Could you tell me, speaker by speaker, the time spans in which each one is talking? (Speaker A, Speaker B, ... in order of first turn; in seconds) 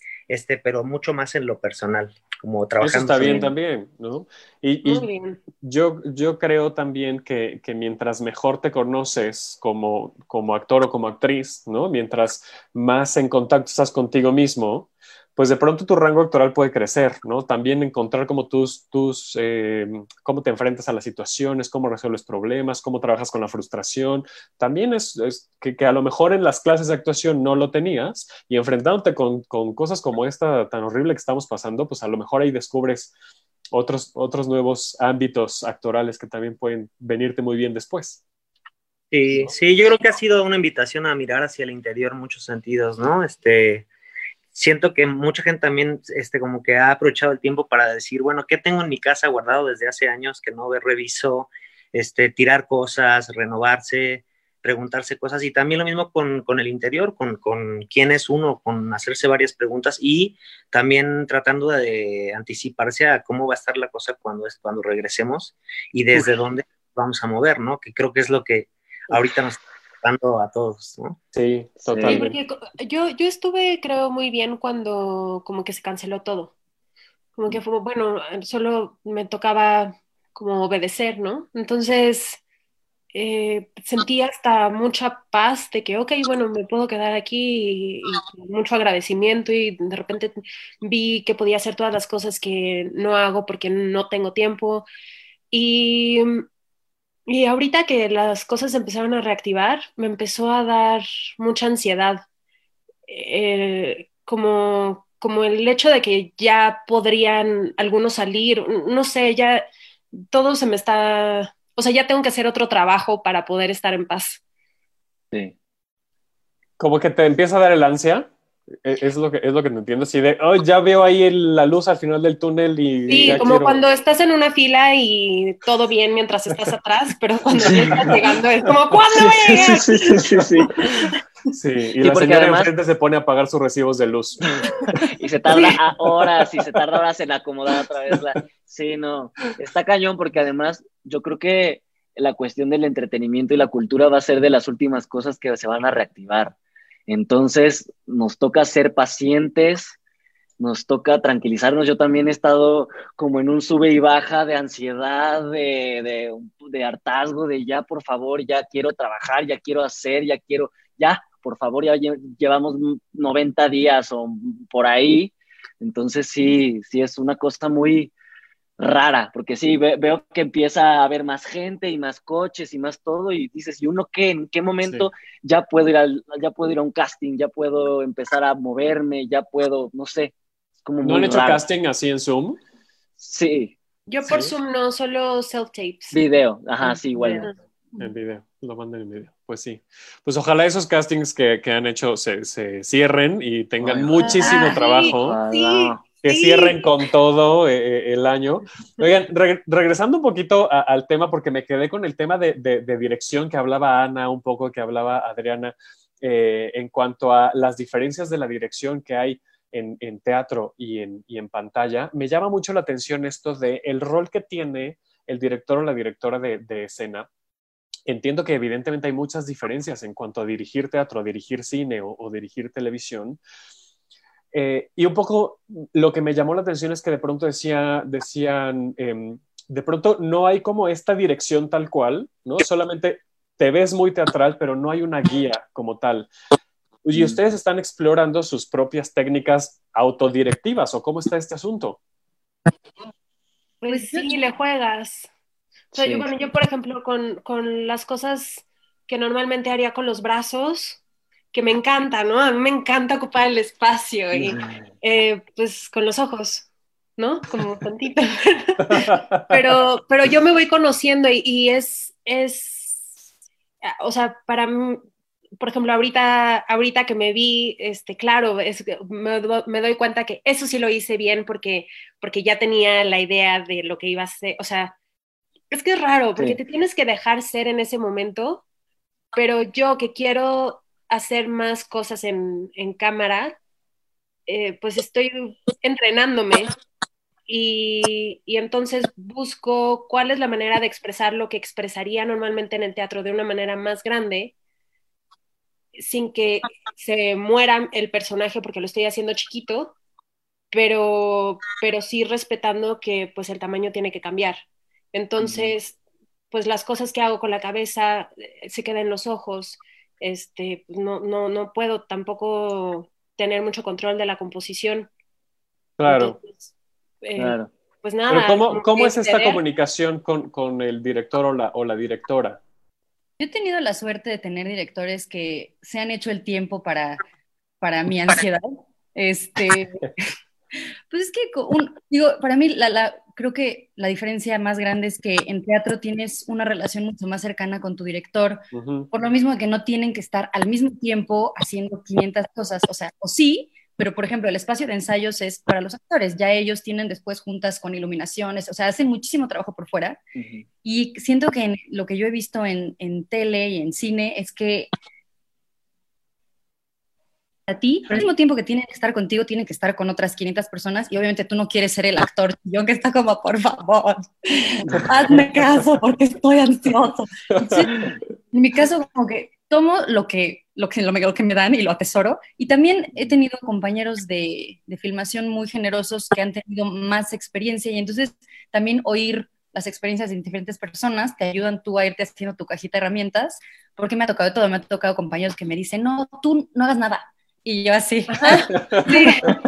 Speaker A: 0.3-3.4, 39.1-43.9, 44.5-71.2
Speaker B: 2.8-5.1, 5.6-33.1, 33.7-38.2, 71.3-72.4, 116.8-118.3, 118.8-123.8, 127.9-128.2, 131.5-134.4, 174.8-175.1, 181.0-182.6, 184.2-184.6, 188.0-195.4, 196.2-217.3, 218.1-223.4, 224.5-236.3, 237.1-242.0, 258.9-259.6, 316.0-316.4, 318.3-322.6, 338.7-339.1, 367.6-367.9
Speaker C: 3.2-3.5, 4.8-5.4, 72.1-76.5, 77.4-82.4, 83.1-94.9, 95.5-96.5, 97.3-102.2, 103.1-114.4, 123.1-130.4, 135.5-135.8, 184.1-186.2, 186.8-187.6, 194.2-196.9, 243.8-245.3, 246.0-251.0, 251.5-263.1, 263.8-265.0, 265.6-275.0, 275.7-278.6, 279.3-283.6, 284.5-286.8, 287.5-294.5, 296.0-300.0, 300.7-306.0, 306.5-315.1, 316.0-316.7, 317.2-319.6, 388.3-389.4
Speaker D: 71.8-72.2, 127.5-128.2, 129.1-131.2, 132.0-132.7, 134.5-146.5, 147.1-150.0, 150.6-168.1, 168.8-180.3, 180.8-181.6, 183.2-183.7, 186.1-187.5, 193.8-196.0, 245.9-246.3, 254.4-254.9, 305.4-305.8, 317.4-317.7, 350.4-350.6
Speaker E: 243.8-244.4, 323.4-327.2, 327.8-330.1, 331.1-350.2, 350.8-354.9, 357.7-367.9, 368.5-389.3